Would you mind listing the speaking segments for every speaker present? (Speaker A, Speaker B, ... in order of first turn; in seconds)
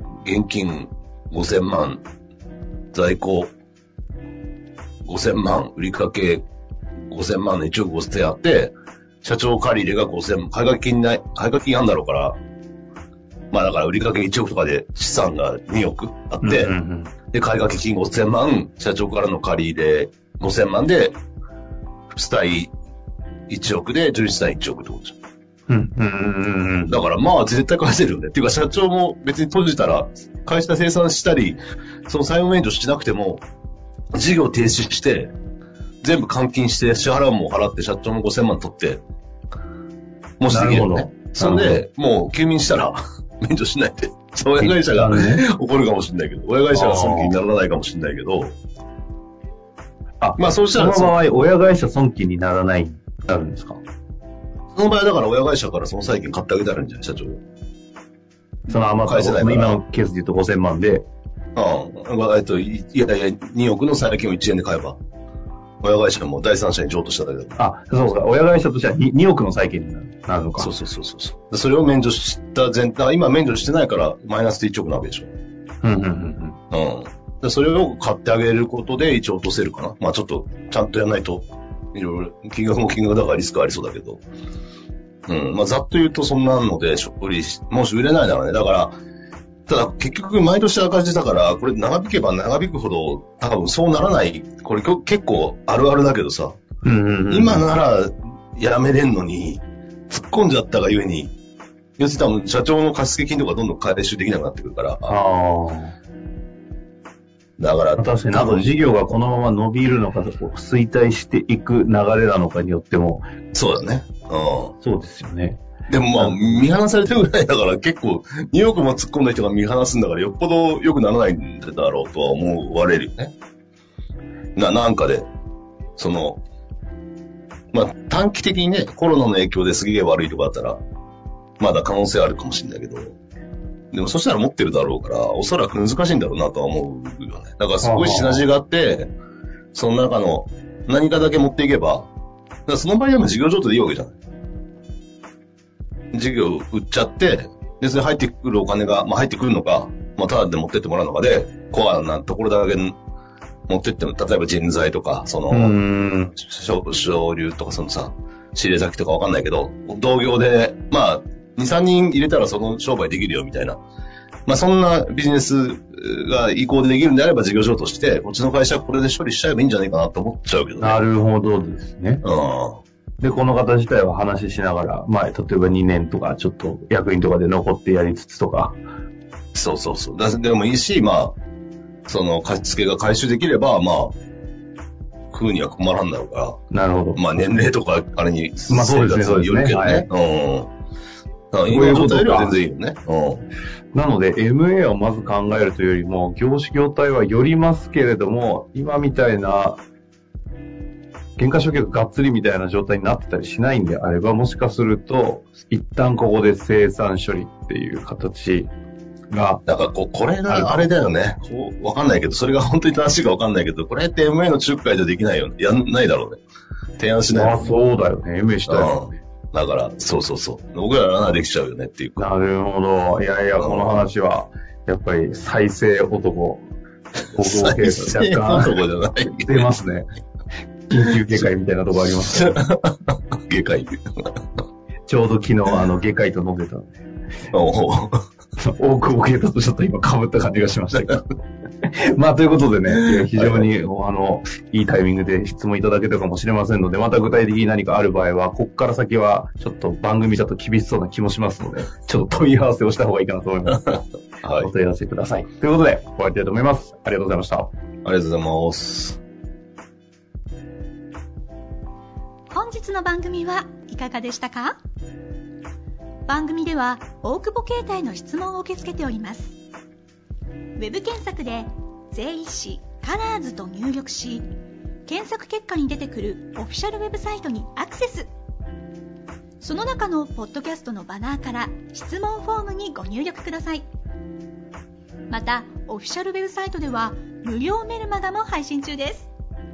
Speaker A: 0.2-2.0, 2.9-3.5, 5.0-6.4, 7.1-12.4, 13.5-16.7, 17.3-21.2, 22.1-22.7, 23.5-25.2, 26.9-33.4, 34.1-35.3, 36.0-39.0, 40.4-48.6, 50.4-51.2, 54.7-57.4, 58.7-59.8, 61.5-65.0, 65.8-67.6, 70.6-75.3, 76.7-84.2, 85.3-89.0, 89.7-96.6, 97.3-101.3, 102.0-105.2, 107.6-108.7, 113.5-114.7, 115.9-123.3, 124.5-125.3, 126.0-126.4, 127.7-130.8, 131.6-133.2, 133.9-139.1, 139.7-142.1, 142.7-144.2, 146.1-153.0, 153.7-155.8, 156.4-163.8, 164.5-171.0, 172.2-172.8, 179.5-181.4, 182.1-184.2, 185.3-186.6, 187.2-190.7, 191.5-193.5, 209.7-216.4, 217.0-217.8, 218.7-222.3, 223.6-224.0, 227.3-229.7, 232.3-234.3, 237.5-238.2, 240.9-241.2, 242.9-243.7, 254.4-254.7, 258.0-259.2
Speaker B: 16.4-17.1, 25.7-27.0, 40.5-41.8, 44.6-45.4, 46.7-47.3, 50.2-53.8, 58.7-61.0, 67.6-70.7, 75.8-76.6, 96.8-97.7, 105.1-106.0, 108.0-113.3, 114.8-115.6, 116.2-116.7, 137.8-138.4, 155.5-156.3, 170.8-172.2, 173.2-178.8, 186.7-187.6, 188.7-190.1, 191.7-192.5, 193.9-199.8, 201.4-208.7, 209.3-209.6, 210.5-210.9, 217.3-219.0, 222.2-226.6, 227.3-228.7, 229.4-230.1, 230.9-232.6, 235.1-236.9, 238.6-241.2, 241.8-254.0, 254.6-257.7
Speaker C: 262.5-264.8, 266.3-269.6, 270.8-274.5, 275.1-278.3, 279.6-283.9, 285.3-289.3